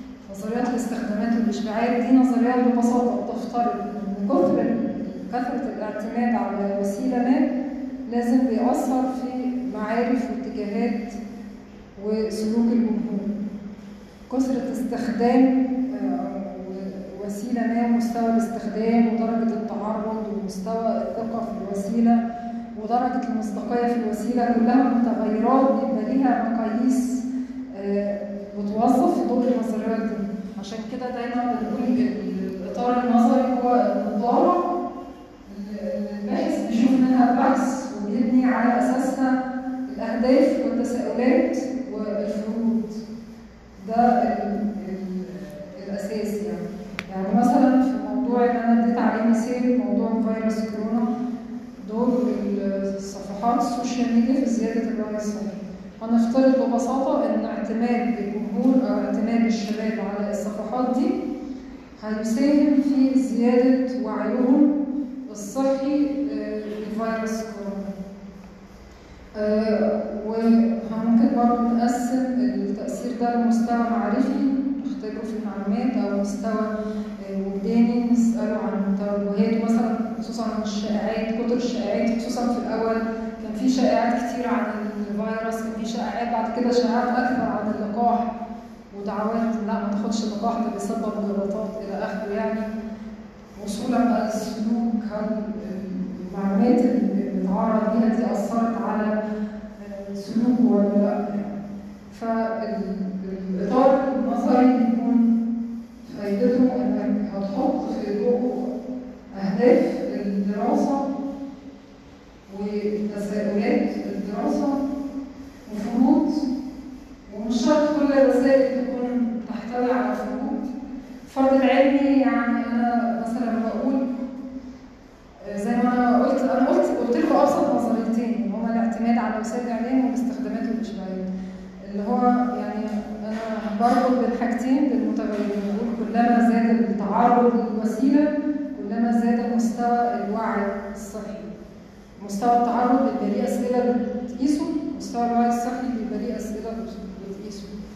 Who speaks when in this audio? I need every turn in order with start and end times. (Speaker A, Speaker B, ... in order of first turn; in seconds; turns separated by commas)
Speaker A: 0.2-7.5, Speaker A: 8.1-11.2, Speaker A: 12.0-13.3, Speaker A: 14.3-22.2, Speaker A: 22.8-34.6, Speaker A: 35.5-39.3, Speaker A: 39.9-43.0, Speaker A: 43.8-51.1, Speaker A: 51.8-61.2, Speaker A: 62.0-64.7, Speaker A: 65.3-67.9, Speaker A: 69.3-88.3, Speaker A: 88.9-92.7, Speaker A: 93.6-99.1, Speaker A: 99.8-101.5, Speaker A: 102.1-105.3, Speaker A: 106.0-108.7, Speaker A: 109.3-111.0, Speaker A: 112.5-114.8, Speaker A: 115.7-116.4, Speaker A: 117.3-120.7, Speaker A: 121.3-124.0, Speaker A: 125.4-131.3, Speaker A: 131.9-141.5, Speaker A: 142.2-147.7